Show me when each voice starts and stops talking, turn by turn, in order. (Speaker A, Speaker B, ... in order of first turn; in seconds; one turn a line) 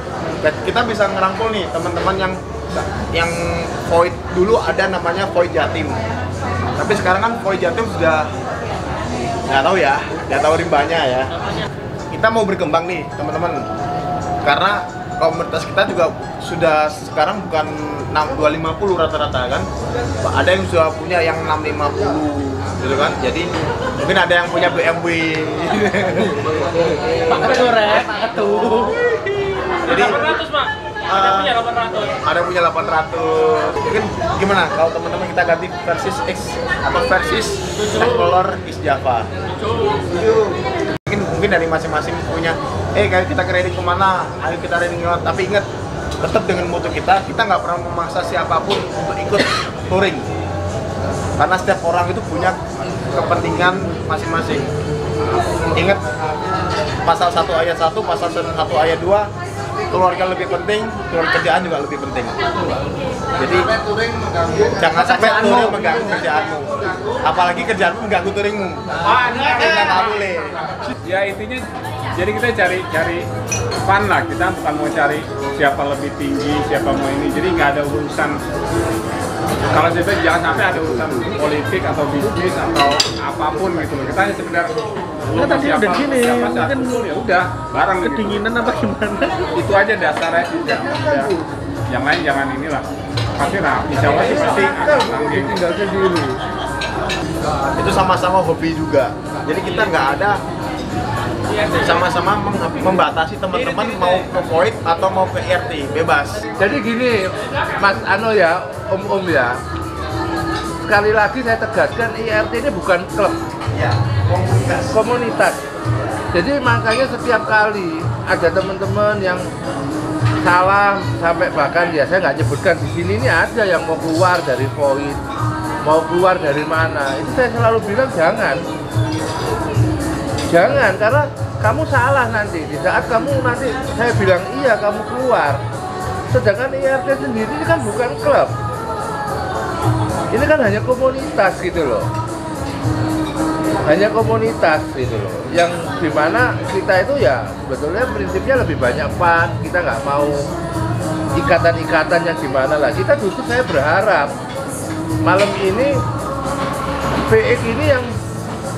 Speaker A: 0.4-6.0
Speaker A: 6.8-8.3
Speaker A: 9.5-11.3
Speaker A: 12.1-13.6
Speaker A: 14.4-19.6
Speaker A: 20.2-23.5
Speaker A: 24.0-26.6
Speaker A: 27.3-27.7
Speaker A: 28.6-28.9
Speaker A: 29.8-30.4
Speaker A: 31.1-39.3
Speaker A: 40.1-45.7
Speaker A: 46.2-50.2
Speaker A: 51.4-54.7
Speaker A: 55.7-56.0
Speaker A: 57.0-59.3
Speaker A: 59.9-62.4
Speaker A: 63.4-63.7
Speaker A: 64.5-70.6
Speaker B: 69.0-70.2
Speaker B: 71.0-71.7
Speaker B: 72.2-73.2
Speaker B: 73.9-78.4
Speaker B: 79.7-84.7
Speaker B: 85.3-88.9
Speaker B: 89.5-91.3
Speaker C: 90.9-91.3
Speaker B: 91.9-92.9
Speaker B: 93.4-95.6
Speaker C: 94.1-96.4
Speaker A: 97.7-100.4
Speaker A: 101.6-106.4
Speaker C: 106.6-107.2
Speaker C: 107.8-109.6
Speaker C: 110.8-113.4
Speaker C: 114.8-115.6
Speaker C: 116.3-119.5
Speaker C: 120.4-125.2
Speaker C: 125.8-128.6
Speaker C: 130.5-135.6
Speaker C: 136.3-138.5
Speaker C: 140.3-142.1
Speaker C: 143.8-150.4
Speaker C: 151.4-154.3
Speaker C: 155.2-155.9
Speaker C: 157.3-158.1